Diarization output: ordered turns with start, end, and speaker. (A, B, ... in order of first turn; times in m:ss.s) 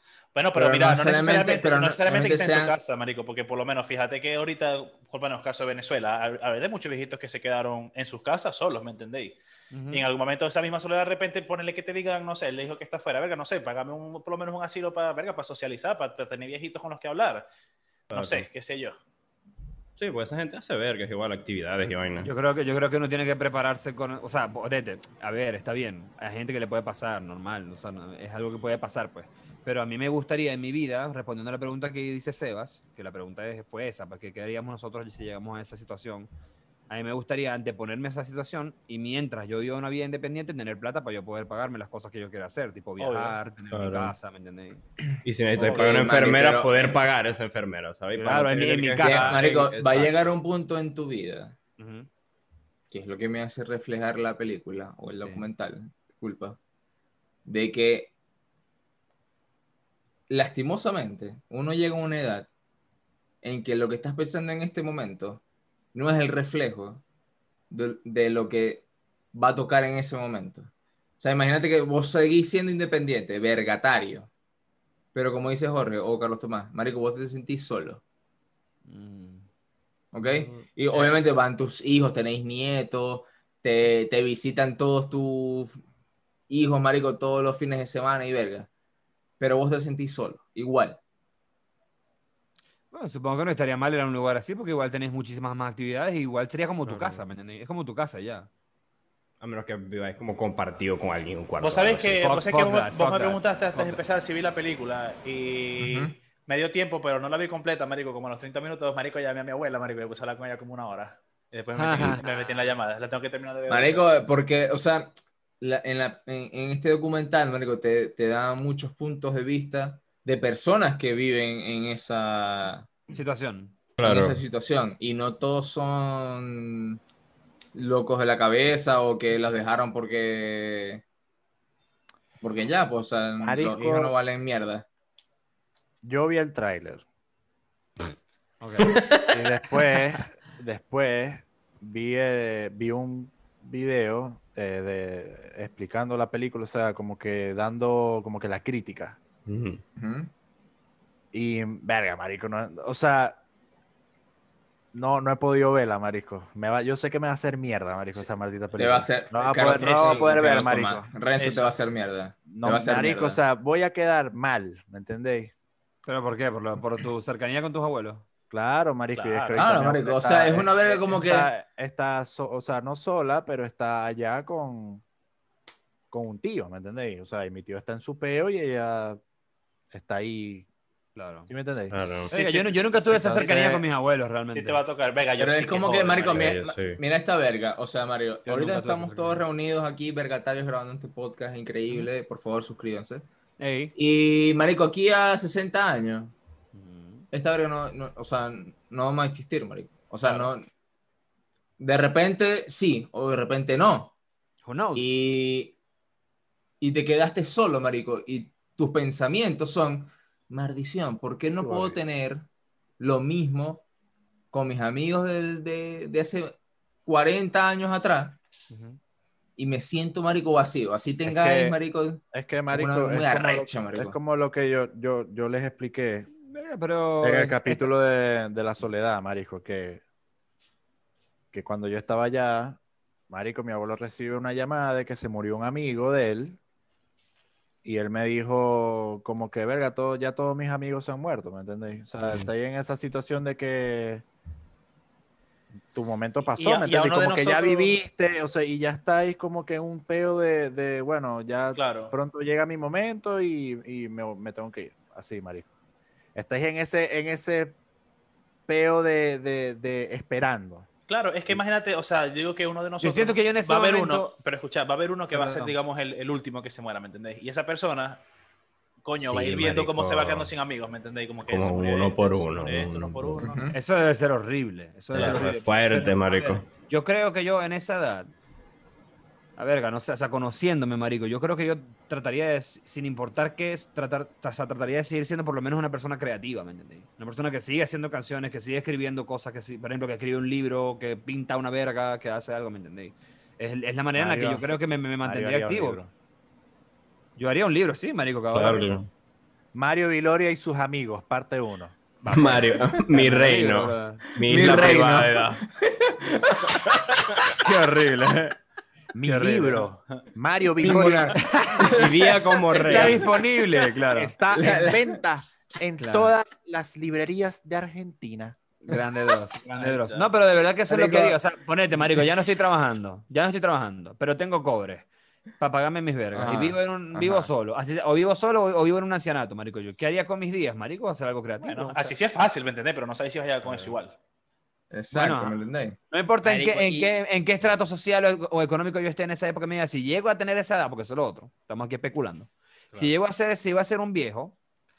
0:00.4-0:09.4 A
0:00.5-0:02.8 B
0:09.7-0:10.1 C
0:09.9-0:17.4 A
0:18.1-0:18.5 D
0:18.1-0:19.0 A
0:20.0-0:22.3 D
0:22.2-0:36.3 C
0:36.9-0:44.8 C
0:43.0-0:43.4 A
0:43.7-0:44.1 D
0:45.2-0:50.1 D
0:45.6-0:47.0 B
0:45.6-0:45.8 A
0:48.2-0:49.4 C
0:49.0-0:51.6 B
0:51.8-0:52.1 C
0:52.9-0:56.6 B
0:55.2-0:55.4 C
0:57.4-0:58.1 B
1:00.3-1:02.5 B
1:03.4-1:05.4 B
1:05.9-1:07.0 B
1:07.7-1:14.3 B
1:15.1-1:18.0 B
1:18.9-1:19.5 C
1:20.1-1:25.8 B
1:26.5-1:28.7 B
1:29.4-1:31.0 B
1:32.9-1:38.5 C
1:36.8-1:37.2 D
1:39.4-1:42.2 D
1:41.6-1:54.1 A
1:42.2-1:44.0 C
1:45.8-1:46.1 B
1:51.8-1:52.2 C
1:53.7-2:02.9 B
2:03.1-2:03.8 C
2:04.0-2:04.4 D
2:04.0-2:07.0 B
2:07.7-2:11.0 B
2:12.4-2:14.9 B
2:13.4-2:14.1 E
2:16.0-2:17.0 E
2:18.6-2:19.0 C
2:18.8-2:19.4 D
2:19.3-2:29.2 E
2:29.5-2:29.8 D
2:30.0-2:30.3 B
2:31.3-2:33.4 E
2:34.9-2:41.1 E
2:38.8-2:43.4 B
2:39.5-2:40.6 A
2:41.4-2:41.7 A
2:42.5-2:45.5 E
2:46.1-2:48.2 C
2:48.5-2:55.0 E
2:49.1-2:49.7 A
2:49.6-2:51.5 B
2:56.1-2:59.2 E
2:59.9-3:00.7 E
3:01.2-3:01.5 C
3:01.5-3:02.3 E
3:01.9-3:02.3 D
3:02.3-3:04.8 C
3:02.3-3:03.5 A
3:02.9-3:03.8 E
3:04.5-3:06.4 A
3:05.4-3:13.3 B
3:06.3-3:07.0 D
3:08.5-3:09.4 C
3:13.6-3:13.9 C
3:14.0-3:16.4 B
3:16.7-3:17.3 C
3:17.3-3:20.6 B
3:21.8-3:24.1 B
3:24.6-3:25.1 C
3:25.0-3:25.8 B
3:26.8-3:32.4 B
3:31.6-3:32.0 E
3:33.0-3:33.8 B
3:34.5-3:38.4 B
3:38.7-3:39.0 C
3:39.6-3:44.2 B
3:41.2-3:41.8 E
3:42.3-3:46.3 E
3:46.3-3:47.9 C
3:47.2-3:50.0 E
3:51.5-3:52.8 E
3:53.3-3:56.6 E
3:57.8-4:04.2 E
4:05.9-4:15.7 E
4:06.6-4:08.0 A
4:11.7-4:12.1 A
4:16.4-4:17.8 E
4:18.7-4:20.9 E
4:21.1-4:28.2 A
4:23.0-4:24.3 C
4:25.3-4:25.7 C
4:29.0-4:33.6 A
4:29.2-4:30.5 D
4:31.4-4:33.5 D
4:33.4-4:33.8 B
4:33.7-4:38.3 C
4:35.1-4:36.7 D
4:39.6-4:56.0 C
4:54.2-4:56.1 E
4:57.4-4:59.1 C
4:58.5-4:59.1 D
4:59.7-5:02.0 E
5:02.2-5:05.1 C
5:02.3-5:05.6 D
5:04.4-5:07.4 B
5:07.6-5:08.6 C
5:09.2-5:11.4 E
5:09.2-5:09.9 C
5:10.8-5:13.1 B
5:11.4-5:11.9 C
5:11.9-5:13.3 D
5:12.8-5:14.3 C
5:14.2-5:18.6 E
5:14.5-5:15.2 B
5:16.0-5:16.3 C
5:18.8-5:25.1 C
5:19.8-5:20.2 A
5:20.9-5:21.4 B
5:21.9-5:22.3 B
5:25.6-5:32.2 C
5:26.3-5:27.5 B
5:31.6-5:34.2 A
5:34.9-5:36.0 B
5:35.1-5:35.6 C
5:36.1-5:44.6 C
5:36.4-5:37.1 D